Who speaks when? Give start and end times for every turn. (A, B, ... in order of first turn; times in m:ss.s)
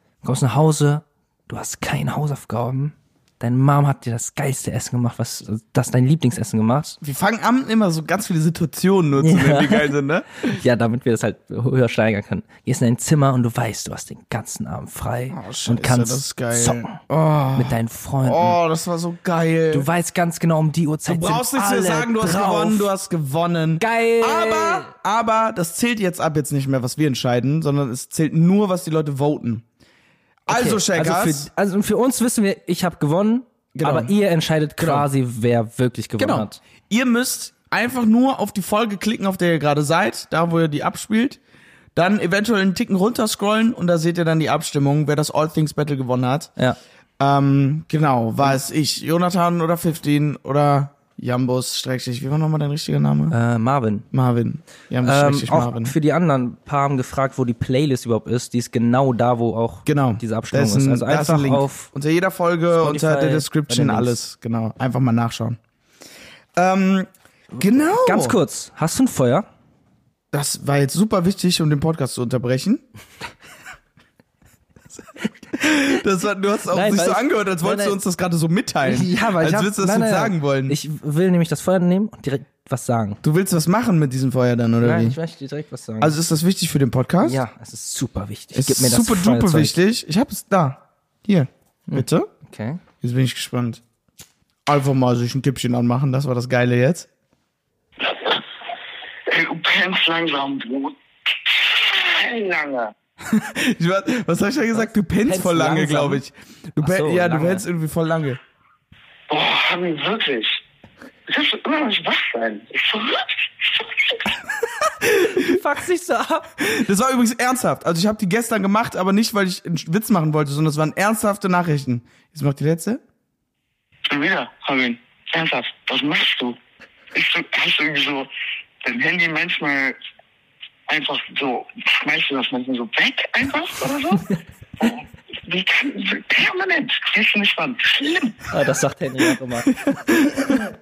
0:00.2-0:07.0 A
0:07.0-0:10.4 B
0:09.2-0:17.0 A
0:15.3-0:19.9 B
0:17.6-0:18.6 A
0:19.7-0:22.9 A
0:21.1-0:29.6 B
0:23.8-0:24.9 A
0:30.5-0:31.5 B
0:30.5-0:36.6 A
0:33.7-0:34.1 B
0:34.8-0:35.1 B
0:36.2-0:41.4 B
0:42.0-0:46.5 B
0:47.2-0:53.4 B
0:53.3-0:54.1 A
0:54.1-0:56.0 B
0:55.0-1:01.9 A
0:59.9-1:05.6 B
1:02.7-1:04.2 A
1:06.6-1:08.4 B
1:08.0-1:09.5 A
1:10.3-1:12.8 B
1:15.5-1:20.8 B
1:16.7-1:18.0 A
1:18.8-1:23.2 A
1:23.2-1:25.2 B
1:24.8-1:26.2 A
1:26.0-1:27.4 B
1:27.2-1:29.8 A
1:28.5-1:32.3 B
1:31.9-1:32.8 A
1:33.0-1:33.8 B
1:34.7-1:37.1 B
1:38.0-1:38.4 C
1:39.3-1:42.9 C
1:43.2-1:48.4 B
1:44.7-1:46.2 A
1:46.8-1:47.6 A
1:49.3-1:50.6 C
1:51.3-1:54.3 C
1:54.8-1:55.6 B
1:55.3-1:56.5 A
1:56.6-2:03.0 B
2:04.0-2:06.6 C
2:07.1-2:08.3 C
2:08.8-2:10.0 C
2:10.9-2:14.3 C
2:14.8-2:18.4 C
2:18.5-2:19.7 A
2:19.7-2:20.7 B